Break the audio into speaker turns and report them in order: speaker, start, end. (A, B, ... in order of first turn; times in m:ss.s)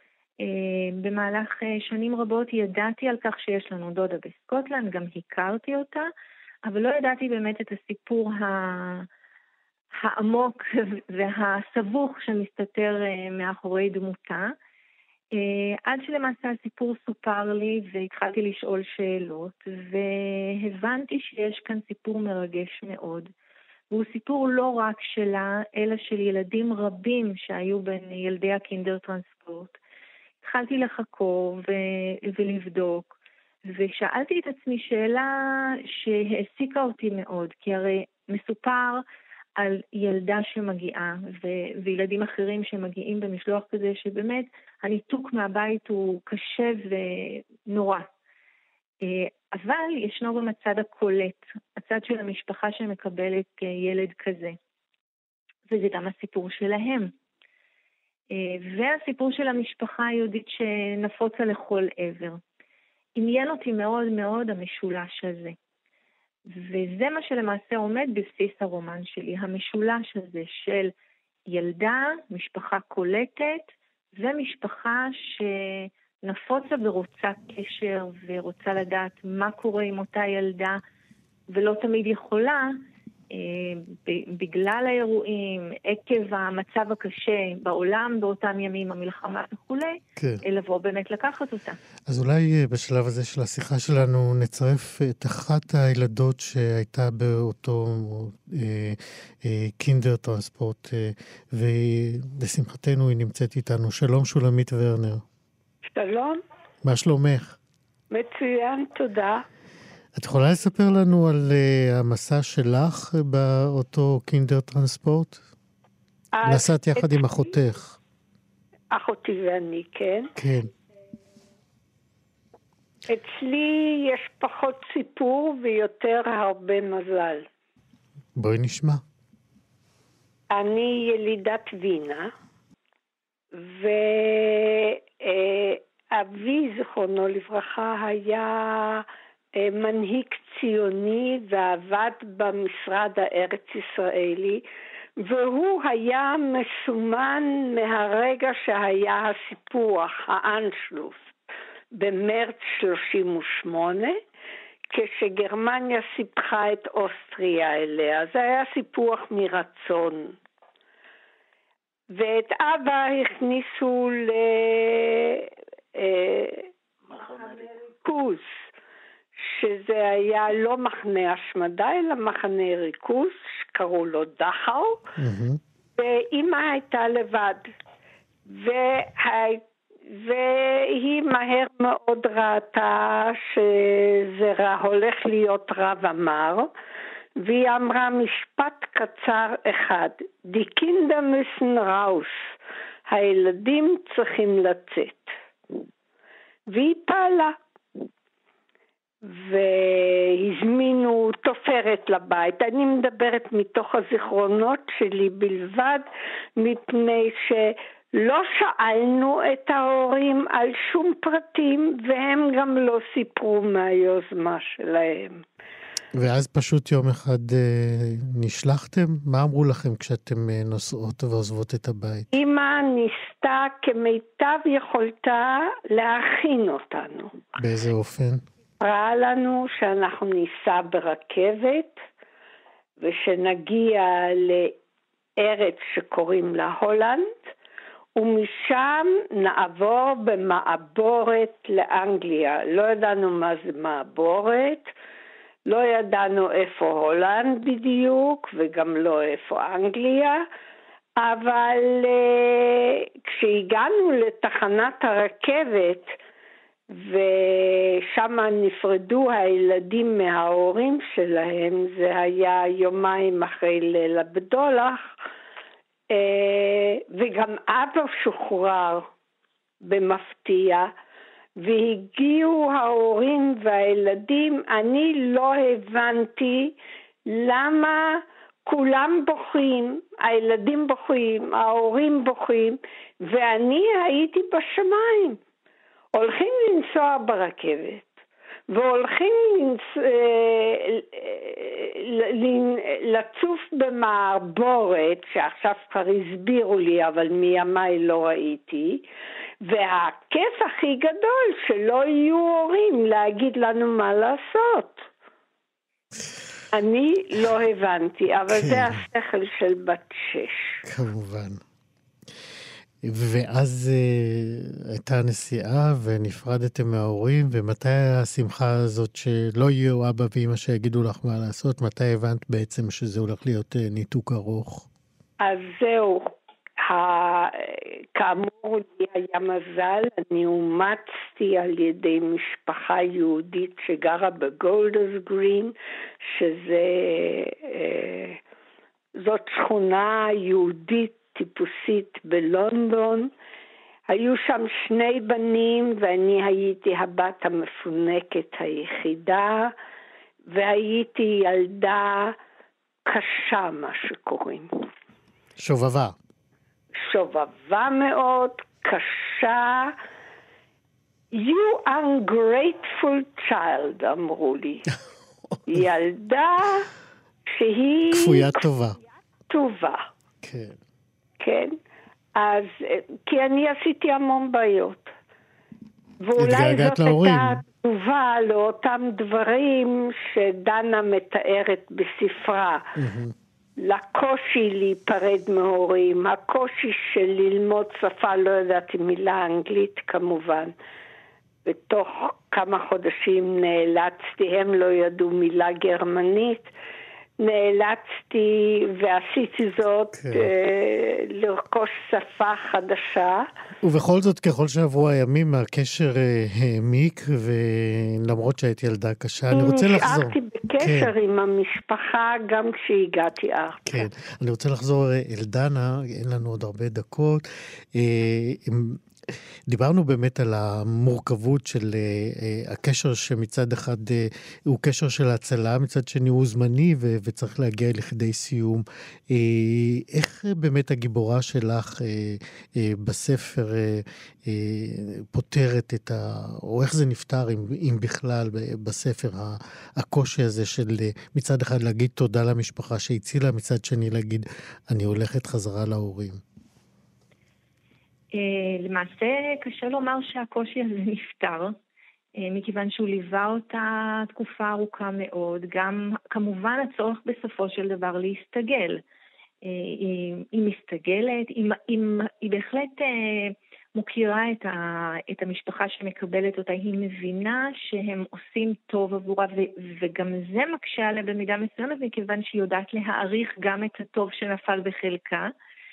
0:00.4-0:06.1 A
0:06.6-0:09.1 A
0:09.9-0:14.6 A
0:15.3-0:23.3 A
0:23.9-0:29.8 A
0:30.4-0:33.1 A
0:33.7-0:39.0 A
0:39.6-0:48.1 A
0:49.0-0:54.6 A
0:55.7-0:57.1 A
0:58.3-1:02.4 A
1:03.2-1:05.6 A
1:06.5-1:10.9 A
1:11.5-1:20.8 A
1:21.5-1:22.7 A
1:23.3-1:31.8 A
1:30.2-1:30.4 B
1:32.1-1:45.2 B
1:45.9-1:46.4 C
1:46.8-1:47.6 B
1:48.1-1:49.4 C
1:50.2-1:55.4 B
1:56.3-1:57.3 C
1:56.4-1:58.0 B
1:58.9-2:00.3 C
2:00.4-2:00.7 B
2:03.1-2:07.5 C
2:08.4-2:09.0 B
2:10.5-2:12.3 C
2:13.5-2:24.6 C
2:25.2-2:31.3 C
2:31.9-2:34.2 C
2:34.9-2:40.4 C
2:42.1-2:48.5 C
2:49.4-2:55.0 C
2:55.2-2:55.6 B
2:56.0-2:57.6 C
2:58.5-2:59.6 C
3:00.1-3:06.7 C
3:07.4-3:12.5 C
3:13.1-3:15.3 C
3:16.7-3:17.6 C
3:19.2-3:35.4 C
3:36.2-3:42.3 B
3:42.3-3:47.3 C
3:47.6-3:48.4 B
3:48.8-3:52.0 C
3:53.0-3:54.7 C
3:55.4-3:57.5 C
3:58.2-4:04.9 C
4:05.7-4:10.4 C
4:11.2-4:16.1 C
4:16.9-4:25.1 C
4:26.1-4:29.1 C
4:29.8-4:30.9 C
4:31.6-4:36.7 C
4:37.3-4:45.4 C
4:46.1-4:48.1 C
4:48.7-4:59.0 C
4:59.6-5:05.1 C
5:06.7-5:10.8 C
5:08.5-5:09.0 B
5:10.8-5:11.6 B
5:13.0-5:24.9 B
5:25.4-5:35.7 C
5:36.3-5:38.4 C
5:39.2-5:43.3 C
5:44.1-5:49.7 C
5:50.5-5:52.4 C
5:53.1-5:54.7 C
5:55.6-5:56.2 B
5:57.0-5:59.9 C
6:01.3-6:04.9 C
6:05.7-6:06.9 C
6:07.5-6:08.7 C
6:08.1-6:09.0 B
6:09.5-6:10.0 C
6:10.4-6:10.8 B
6:11.4-6:11.8 C
6:12.4-6:15.1 C
6:16.2-6:22.9 C
6:16.4-6:17.6 B
6:23.0-6:23.3 B
6:23.8-6:30.7 C
6:31.6-6:36.7 C
6:37.4-6:43.5 C
6:40.1-6:40.5 B
6:43.8-6:51.1 B
6:49.5-6:54.0 C
6:53.8-6:59.0 B
6:59.7-7:26.4 B
7:28.3-7:31.7 A
7:32.4-7:39.0 A
7:39.6-7:55.5 A